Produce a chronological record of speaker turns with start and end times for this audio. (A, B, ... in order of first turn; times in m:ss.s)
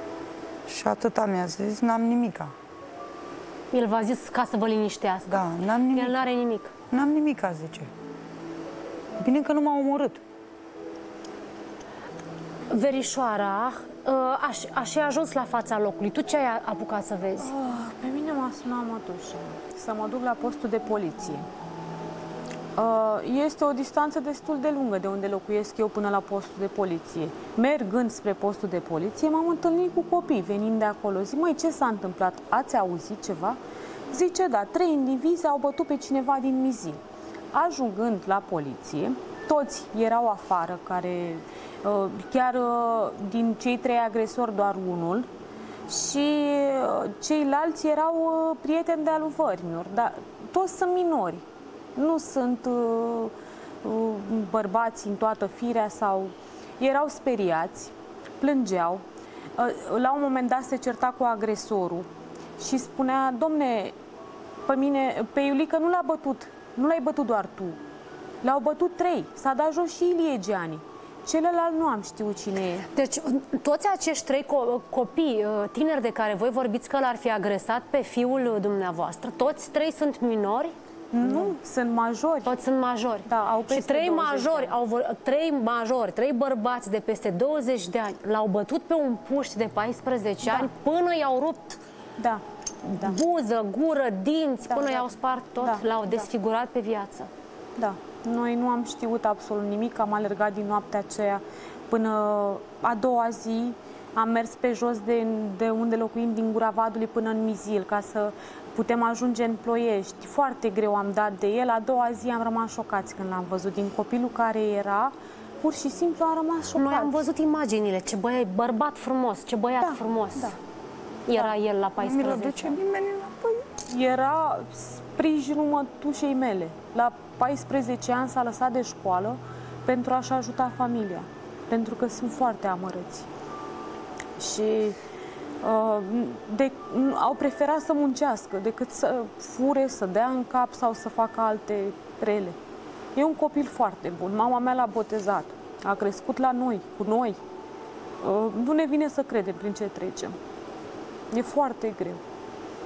0:00.7-0:02.5 A
0:03.7-0:06.7 B
0:05.3-0:06.2 A
0:06.9-0:07.9 A
0:09.2-0:10.2 A
0:12.7-0:17.5 B
0:17.4-0:21.5 C
0:22.8-0:33.6 C
0:34.1-0:45.3 C
0:45.9-0:59.0 C
0:59.6-1:04.0 C
1:04.7-1:07.8 C
1:08.4-1:12.9 C
1:12.9-1:20.7 B
1:21.1-1:22.5 C
1:22.4-1:31.8 B
1:23.3-1:24.8 C
1:30.4-1:30.7 C
1:32.2-1:32.4 C
1:32.8-1:37.3 B
1:34.7-1:36.3 C
1:37.8-1:57.2 C
1:56.8-2:00.6 B
1:59.8-2:00.6 C
2:01.3-2:02.8 B
2:01.3-2:01.6 C
2:02.0-2:03.7 A
2:03.9-2:13.3 C
2:14.4-2:15.0 C
2:15.6-2:22.6 C
2:23.2-2:27.4 C
2:28.2-2:30.4 C
2:31.3-2:32.2 C